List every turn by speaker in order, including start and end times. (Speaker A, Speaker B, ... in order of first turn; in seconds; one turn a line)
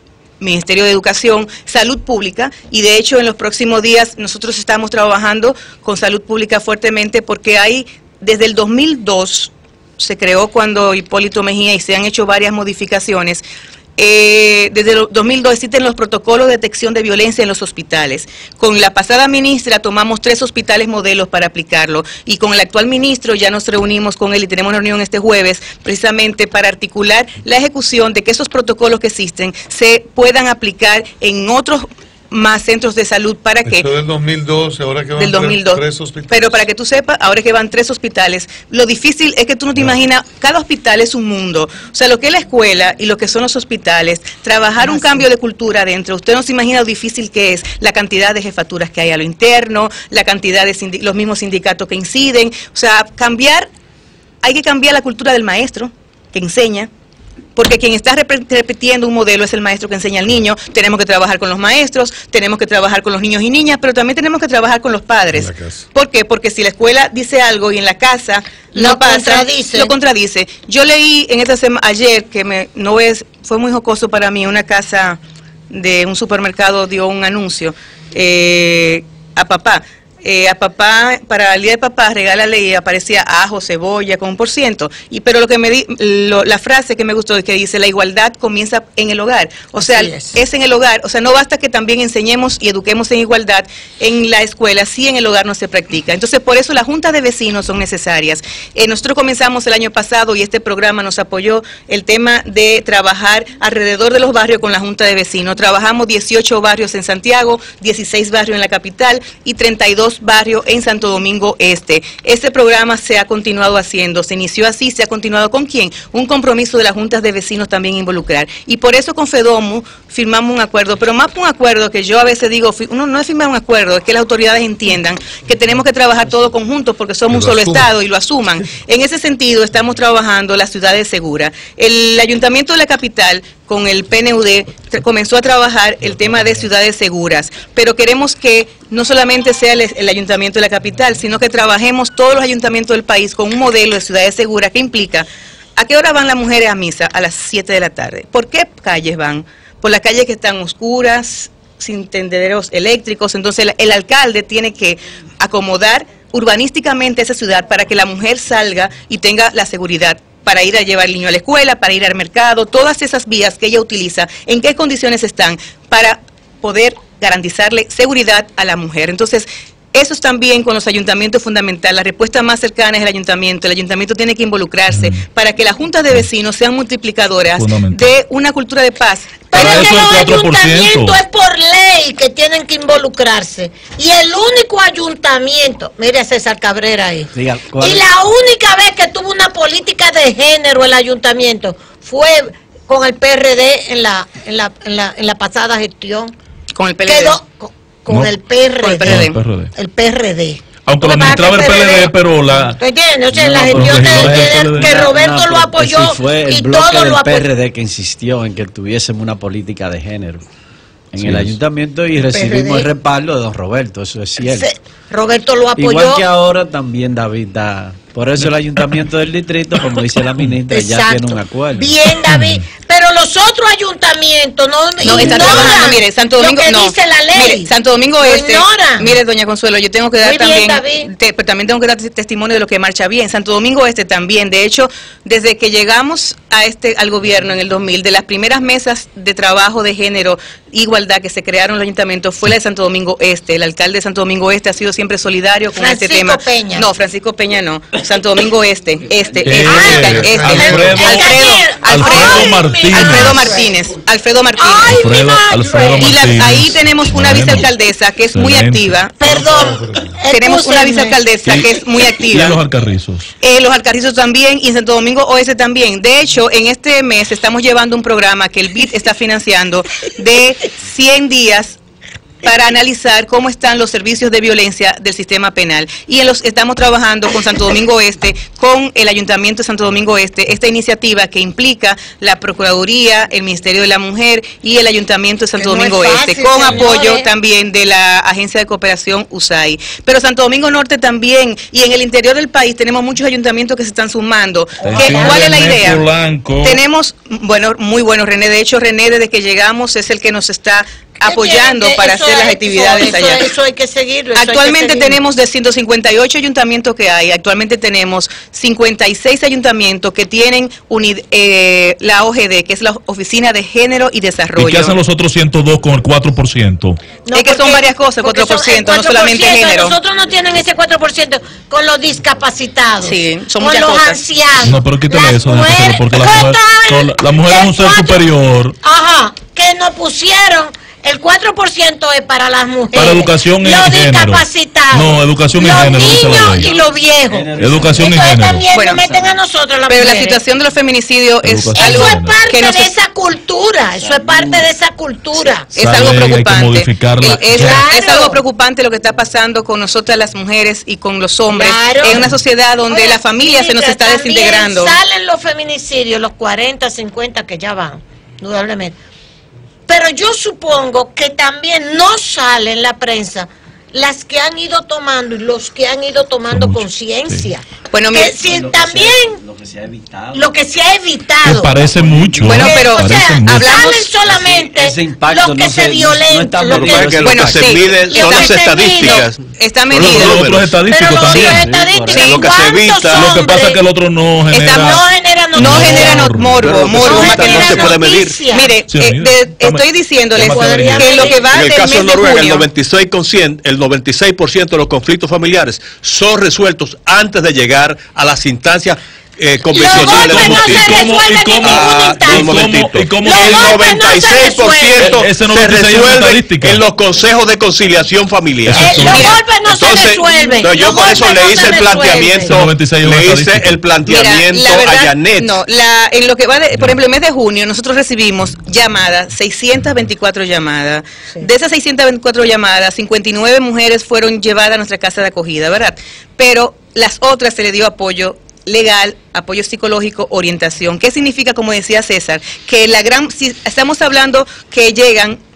Speaker A: 0.4-13.4
Speaker A: 14.0-33.9
Speaker B: 33.6-36.6
Speaker A: 35.2-53.7
Speaker A: 54.4-56.9
Speaker A: 57.5-75.2
Speaker B: 65.3-65.8
Speaker C: 68.7-69.9
Speaker A: 75.7-180.1
Speaker C: 89.8-90.3
Speaker B: 127.6-127.8
Speaker D: 174.9-175.2
Speaker D: 177.6-178.1
Speaker C: 179.5-196.3
Speaker D: 179.5-181.2
Speaker E: 187.3-188.1
Speaker A: 196.7-197.4
Speaker C: 197.1-202.1
Speaker D: 198.1-198.3
Speaker A: 198.8-199.4
Speaker D: 199.0-199.7
Speaker D: 200.8-202.8
Speaker C: 202.8-207.5
Speaker E: 203.3-210.4
Speaker D: 203.7-204.9
Speaker E: 211.1-214.7
Speaker D: 211.2-211.5
Speaker C: 212.2-212.9
Speaker C: 214.4-216.2
Speaker E: 215.8-222.1
Speaker C: 220.7-229.2
Speaker D: 222.3-222.6
Speaker A: 225.0-255.1
Speaker C: 230.2-231.1
Speaker C: 245.8-246.9
Speaker D: 249.4-253.5
Speaker C: 249.5-253.7
Speaker B: 249.8-251.2
Speaker C: 254.6-256.5
Speaker D: 254.9-257.7
Speaker A: 256.0-259.1
Speaker D: 258.3-259.0
Speaker C: 259.2-261.2
Speaker B: 259.2-260.2
Speaker A: 260.3-262.6
Speaker D: 262.2-263.3
Speaker A: 263.4-271.8
Speaker A: 272.4-296.0
Speaker C: 285.6-287.3
Speaker C: 294.8-295.6
Speaker D: 294.8-296.8
Speaker A: 296.6-303.5
Speaker C: 301.2-305.2
Speaker A: 304.4-315.0
Speaker D: 314.6-317.0
Speaker C: 317.2-328.3
Speaker A: 317.3-319.9
Speaker A: 323.0-324.2
Speaker D: 324.6-328.8
Speaker C: 328.8-340.4
Speaker D: 332.9-336.7
Speaker E: 335.6-339.4
Speaker D: 337.6-338.6
Speaker A: 338.7-339.0
Speaker A: 339.9-342.9
Speaker D: 341.4-342.3
Speaker C: 341.7-345.7
Speaker E: 343.9-344.7
Speaker A: 345.7-354.9
Speaker D: 345.8-347.8
Speaker C: 347.2-348.4
Speaker C: 351.5-352.2
Speaker C: 352.9-358.9
Speaker C: 359.9-369.4
Speaker D: 366.5-367.4
Speaker A: 367.9-368.3
Speaker E: 368.4-370.7
Speaker C: 370.3-371.8
Speaker D: 371.4-373.7
Speaker E: 371.6-372.9
Speaker A: 372.4-374.1
Speaker C: 372.5-377.4
Speaker E: 374.1-377.7
Speaker F: 376.7-380.8
Speaker A: 377.2-381.3
Speaker C: 378.1-379.2
Speaker D: 379.9-381.7
Speaker C: 380.9-383.8
Speaker E: 381.4-382.3
Speaker F: 382.1-383.5
Speaker D: 383.1-387.0
Speaker A: 384.5-392.7
Speaker C: 384.7-386.5
Speaker F: 386.6-388.5
Speaker C: 387.0-388.7
Speaker D: 388.9-389.8
Speaker D: 390.3-391.3
Speaker C: 390.4-391.5
Speaker F: 391.4-415.6
Speaker C: 399.7-402.6
Speaker D: 399.8-403.9
Speaker C: 403.2-405.2
Speaker D: 405.0-406.8
Speaker D: 408.6-409.4
Speaker C: 408.7-412.6
Speaker A: 409.1-409.4
Speaker D: 412.4-413.8
Speaker A: 414.1-435.4